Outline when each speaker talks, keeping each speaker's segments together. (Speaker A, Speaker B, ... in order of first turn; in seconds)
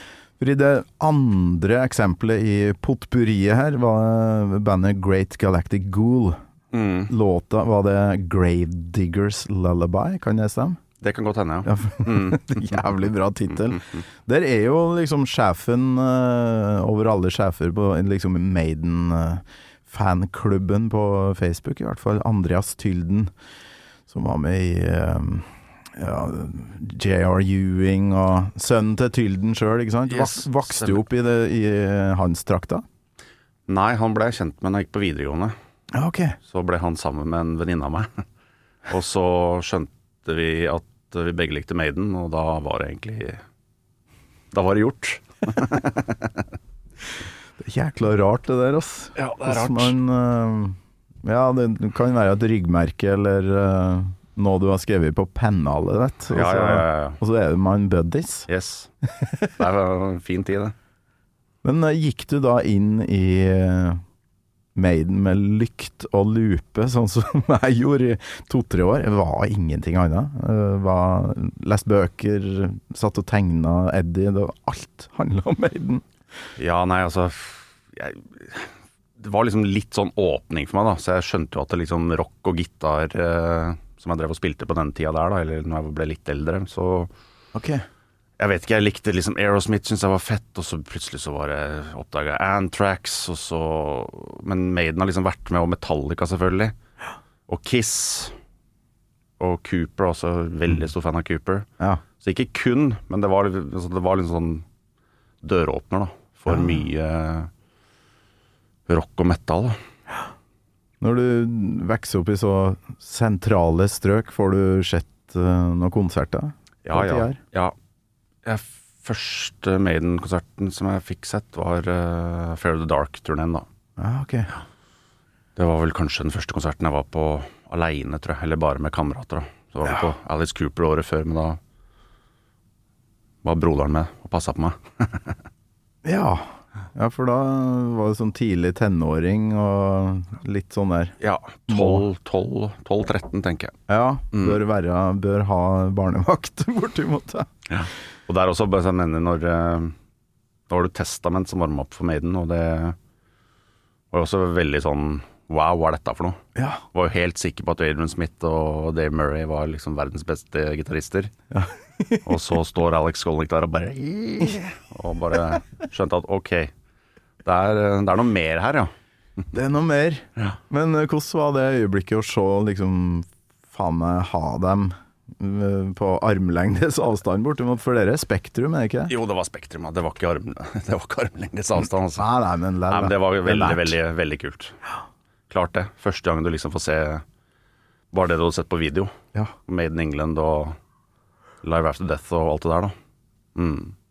Speaker A: 0.4-6.4, 7.1-10.8, 11.7-23.3, 24.1-32.9, 35.9-36.4, 47.6-58.5, 61.6-64.0, 64.8-76.0, 87.5-87.8, 106.5-106.8, 111.0-117.4, 124.0-124.5, 136.0-141.2, 141.7-142.0, 143.9-147.5, 156.6-156.8, 161.5-162.3, 169.5-179.1, 182.2-184.0
Speaker B: 6.7-7.1, 11.0-12.8, 30.1-31.0, 33.7-35.5, 36.5-38.2, 38.9-43.4, 44.5-46.5, 49.2-50.0, 56.3-57.2, 58.5-58.9, 59.5-60.8, 76.6-87.1, 88.4-96.8, 97.5-98.3, 99.4-101.7, 102.2-104.7, 105.4-107.5, 108.9-109.8, 116.8-117.7, 118.5-123.7, 125.6-131.6, 133.4-135.4, 141.2-143.8, 147.7-149.9, 150.7-153.0, 154.1-156.4, 156.9-161.3, 162.2-166.7, 167.4-168.9, 179.1-182.3, 182.9-184.8, 185.5-187.2, 188.1-189.1, 189.7-190.8, 191.6-192.9, 193.6-193.9